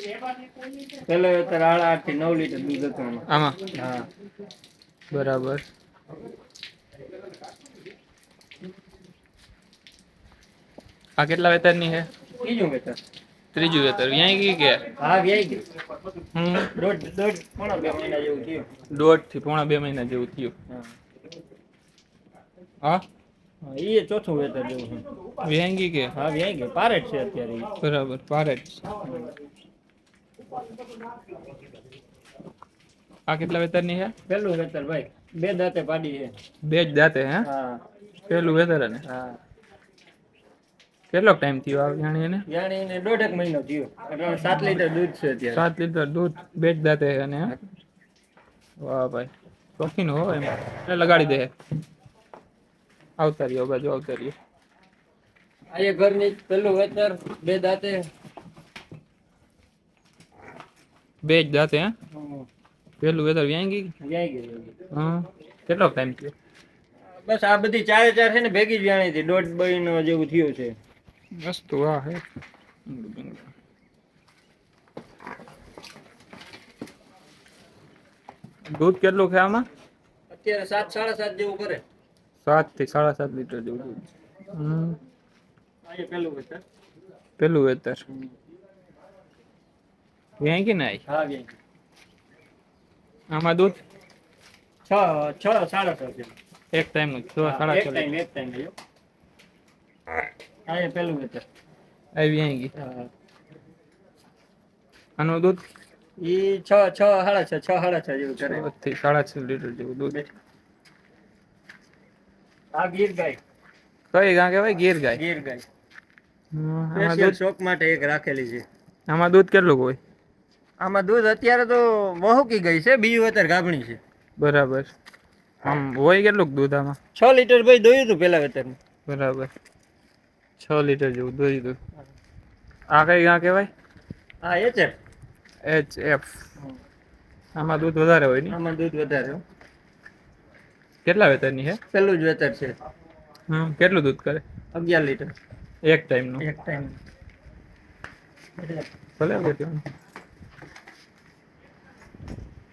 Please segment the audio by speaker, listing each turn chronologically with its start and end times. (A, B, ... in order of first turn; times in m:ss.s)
0:01.0-0:04.1 A
0:03.3-0:03.6 B
0:05.1-0:05.6 B
0:11.2-0:12.1 B
0:12.4-0:13.0 A
0:13.5-0:14.9 B
0:15.0-0:15.6 A
0:16.3-0:16.7 B
0:16.7-0:18.7 A
0:18.9-0:20.6 B
0:23.6-0:25.0 A
0:25.4-0:26.1 B
0:26.1-0:27.7 A
0:27.8-0:28.9 B
0:29.0-0:29.3 A
0:33.3-0:34.2 B
0:34.3-0:36.3 A
0:36.6-0:37.5 B
0:37.4-0:37.8 A
0:38.3-0:39.0 B
0:39.0-0:39.4 A
0:41.1-0:42.5 B
0:42.5-0:45.6 A
0:45.5-0:47.6 B
0:48.8-0:51.5 B
0:53.2-0:54.4 B
0:55.7-0:58.1 A
1:01.2-1:02.0 B
1:02.1-1:02.5 A
1:03.0-1:03.9 B
1:04.0-1:04.7 A
1:04.9-1:06.3 B
1:07.1-1:10.7 A
1:11.4-1:12.2 B
1:12.9-1:13.5 B
1:18.7-1:19.7 B
1:20.3-1:21.8 A
1:22.4-1:25.0 B
1:25.9-1:26.6 A
1:27.4-1:28.0 B
1:30.4-1:31.0 B
1:31.1-1:31.5 A
1:33.3-1:33.8 B
1:34.9-1:36.3 A
1:36.7-1:38.1 B
1:37.4-1:38.7 A
1:40.7-1:41.4 A
1:42.2-1:42.7 B
1:42.8-1:43.1 A
1:45.2-1:45.6 B
1:46.2-1:48.7 A
1:48.4-1:50.2 B
1:52.8-1:53.4 A
1:54.1-1:55.2 B
1:55.2-1:55.6 A
1:56.5-1:57.4 B
1:57.0-1:58.6 A
1:59.1-2:00.0 B
2:00.8-2:04.0 A
2:04.4-2:04.9 B
2:05.6-2:07.0 B
2:07.2-2:08.8 A
2:09.1-2:09.5 B
2:10.6-2:11.8 B
2:12.9-2:13.7 B
2:14.4-2:15.0 A
2:15.6-2:16.4 B
2:17.6-2:18.6 B
2:18.5-2:19.4 A
2:21.0-2:21.8 B
2:21.9-2:22.8 A
2:23.5-2:24.4 B
2:24.7-2:25.3 A
2:25.8-2:26.4 B
2:26.4-2:27.0 A
2:28.6-2:28.9 A
2:29.2-2:29.8 B